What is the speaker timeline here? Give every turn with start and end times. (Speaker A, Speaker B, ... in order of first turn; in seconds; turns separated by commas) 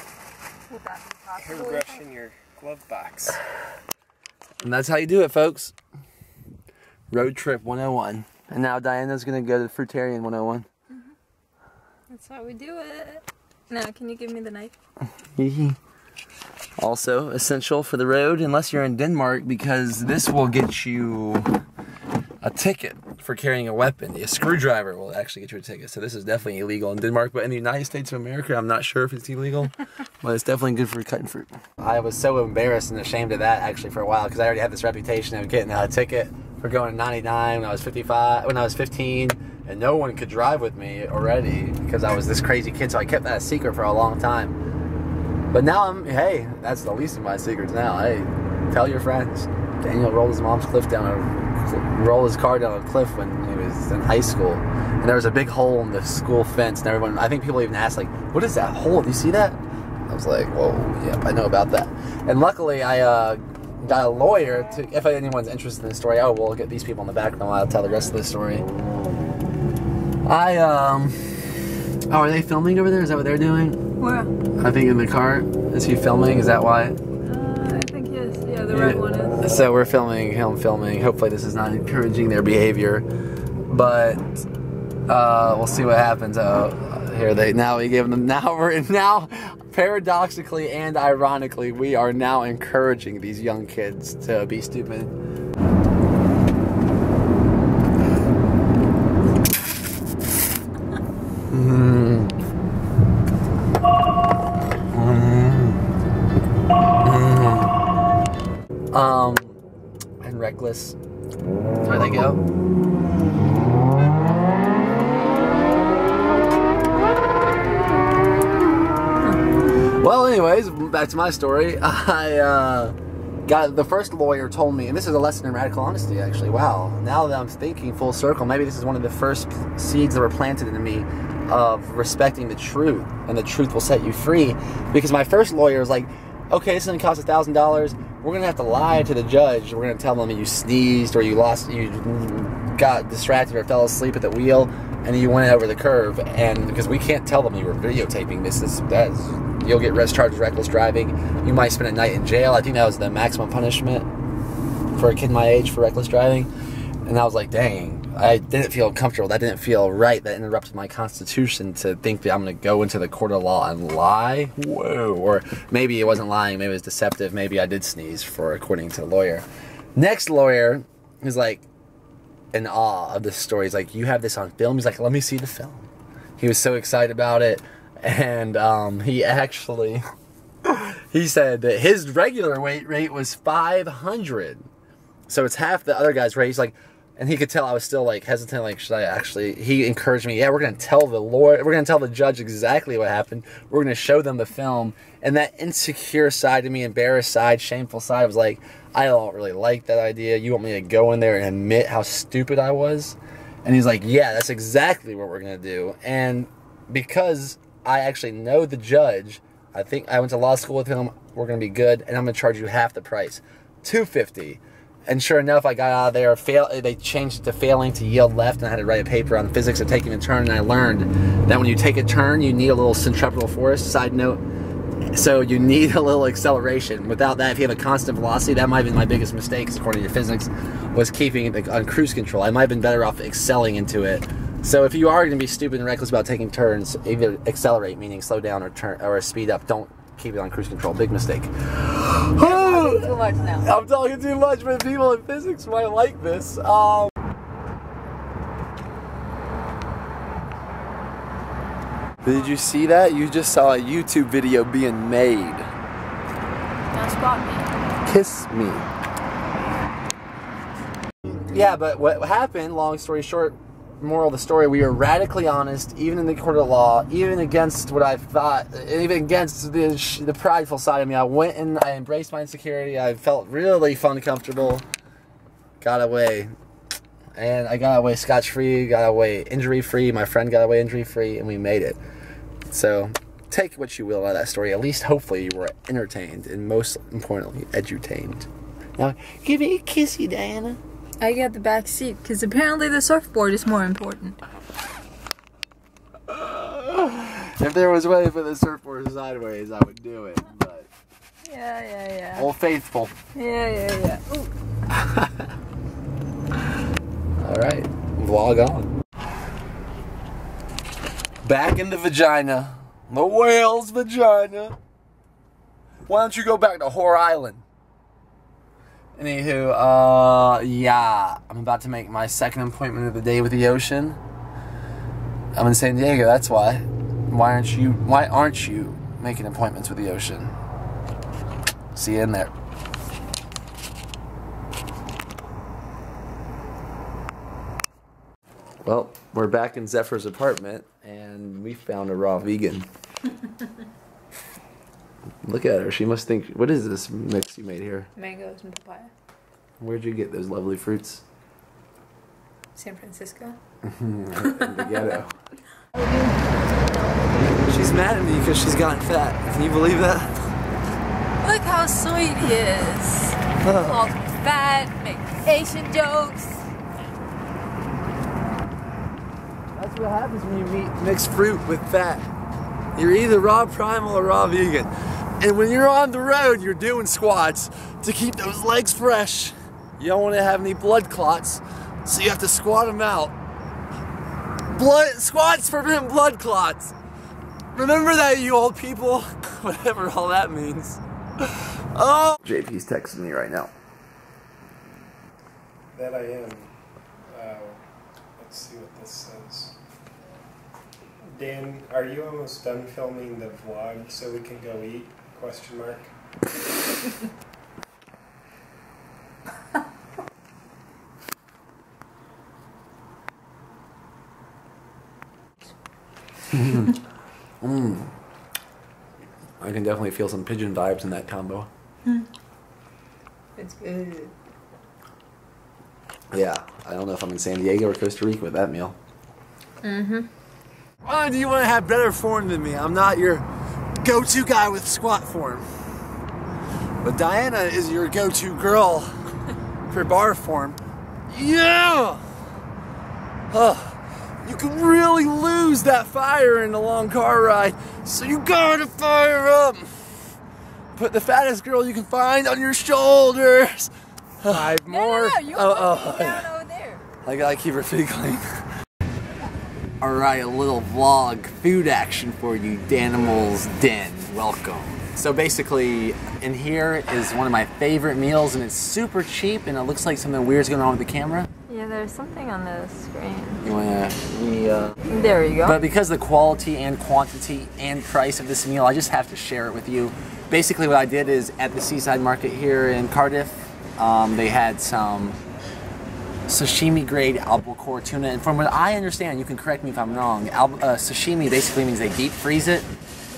Speaker A: 0.7-2.1, Speaker B: 1.4-3.4, Speaker C: 4.6-5.7, Speaker C: 7.1-10.7, Speaker A: 12.1-14.7, Speaker C: 15.4-15.8, Speaker C: 16.8-21.6, Speaker C: 22.4-44.6, Speaker C: 45.5-68.7, Speaker C: 70.2-71.2, Speaker C: 72.1-73.8, Speaker A: 74.0-74.3, Speaker C: 74.6-77.0, Speaker A: 77.2-79.5, Speaker C: 78.7-83.1, Speaker C: 83.7-84.5, Speaker C: 85.1-95.2, Speaker C: 101.5-102.3, Speaker C: 104.9-105.8, Speaker C: 107.0-107.8, Speaker C: 108.9-109.6, Speaker C: 110.2-111.0, Speaker C: 111.8-112.4, Speaker C: 120.0-123.0, Speaker C: 123.5-154.1, Speaker C: 154.9-156.5, Speaker C: 157.1-169.4, Speaker C: 170.0-171.7, Speaker C: 172.5-175.9, Speaker C: 176.4-180.0, Speaker C: 180.7-184.7, Speaker C: 185.3-224.4, Speaker C: 225.1-247.1, Speaker A: 242.4-243.7, Speaker C: 252.2-255.7, Speaker A: 256.9-257.7, Speaker C: 258.1-258.9, Speaker C: 261.3-274.9, Speaker C: 275.8-276.5, Speaker C: 277.4-282.0, Speaker C: 282.7-288.5, Speaker C: 289.0-290.8, Speaker A: 291.2-294.4, Speaker C: 296.3-300.9, Speaker A: 301.4-302.5, Speaker C: 302.4-303.1, Speaker A: 303.4-304.5, Speaker C: 304.9-305.5, Speaker C: 307.4-308.9, Speaker C: 311.4-314.8, Speaker C: 316.1-317.6, Speaker C: 319.2-324.2, Speaker C: 325.6-330.6, Speaker C: 331.9-332.5, Speaker C: 338.9-342.9, Speaker C: 345.4-348.1, Speaker A: 348.2-349.1, Speaker C: 349.8-351.2, Speaker A: 352.8-353.6, Speaker C: 353.8-355.3, Speaker A: 354.4-355.1, Speaker A: 355.9-357.3, Speaker C: 357.7-360.4, Speaker A: 361.4-366.6, Speaker C: 363.6-364.1, Speaker C: 369.7-372.3, Speaker C: 373.0-383.3, Speaker C: 384.7-386.9, Speaker C: 387.8-393.7, Speaker B: 395.9-396.7, Speaker B: 397.2-399.7, Speaker B: 401.3-406.1, Speaker C: 417.6-418.1, Speaker C: 419.6-421.7, Speaker A: 423.6-424.3, Speaker C: 426.3-429.0, Speaker A: 429.8-430.3, Speaker C: 431.1-433.4, Speaker C: 434.0-435.6, Speaker C: 437.0-439.1, Speaker C: 439.9-442.2, Speaker C: 443.5-449.9, Speaker C: 451.0-456.5, Speaker A: 454.6-457.0, Speaker C: 457.2-458.5, Speaker C: 460.0-471.5, Speaker A: 471.7-473.6, Speaker C: 473.6-475.0, Speaker A: 475.1-475.8, Speaker C: 475.6-485.4, Speaker C: 486.5-492.9